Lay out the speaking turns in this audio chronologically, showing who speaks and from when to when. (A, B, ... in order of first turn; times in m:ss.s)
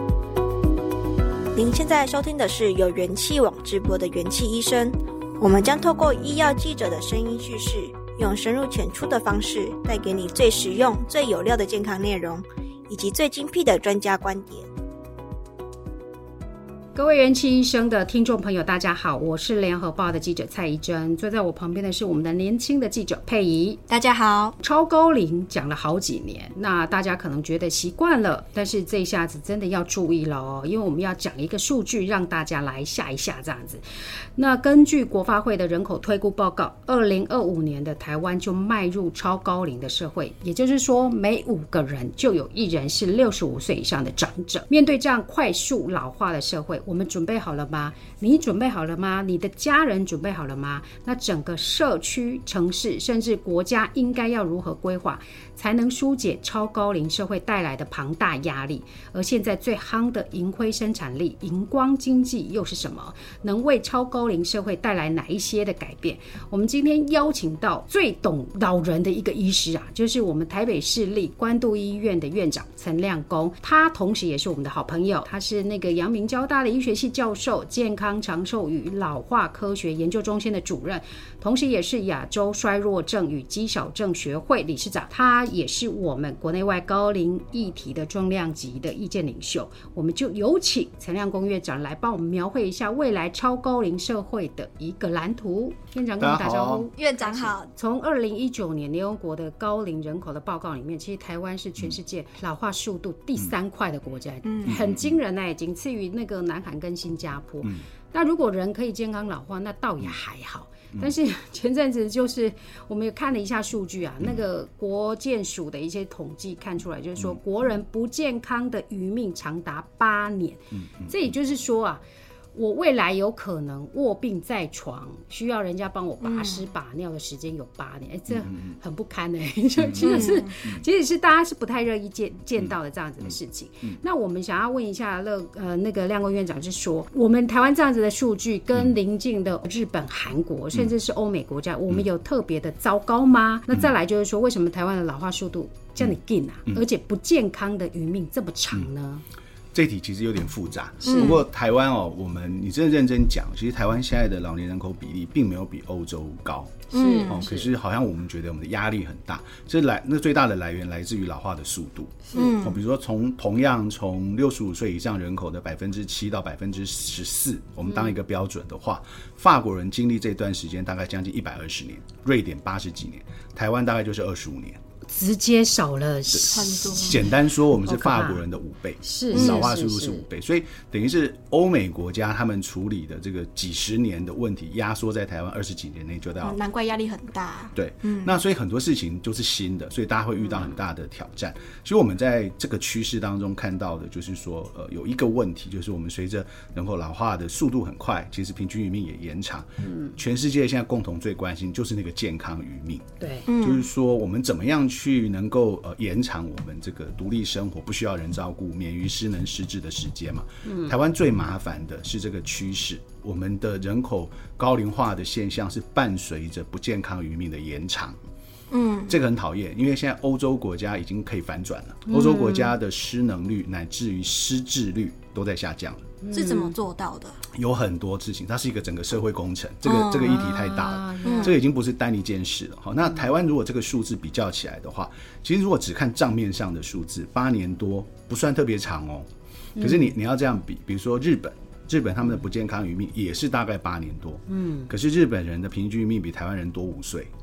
0:01.6-0:14.7 A
0:17.0-0:23.8 B
0:23.9-0:24.6 A
0:24.6-0:33.8 B
0:34.4-2:02.0 B
1:36.2-1:36.9 C
1:36.9-1:37.7 A
1:44.4-1:44.8 A
1:44.6-1:45.2 C
2:00.7-2:01.1 C
2:02.5-2:29.2 B
2:06.2-2:06.7 A
2:08.3-2:08.8 C
2:09.8-2:10.8 C
2:10.0-2:10.6 A
2:12.6-2:14.0 C
2:29.7-2:54.8 C
2:31.0-2:31.3 B
2:31.0-2:31.4 A
2:36.9-2:37.4 A
2:36.9-2:37.7 B
2:42.3-2:42.8 A
2:55.1-2:58.4 B
2:56.3-3:06.6 C
2:56.4-2:57.3 A
2:59.0-3:00.2 B
2:59.3-2:59.7 A
3:06.4-3:08.3 A
3:07.8-3:38.2 C
3:19.8-3:20.2 B
3:23.2-3:23.5 B
3:23.5-3:23.8 A
3:30.7-3:30.9 B
3:38.7-3:39.1 A
3:39.1-3:46.1 C
3:42.1-3:42.6 B
3:46.2-3:46.8 B
3:46.3-3:47.4 A
3:47.5-4:07.3 C
3:49.9-3:50.5 A
3:50.2-3:51.6 B
3:51.2-3:51.6 A
3:59.8-4:00.1 B
4:04.5-4:04.9 B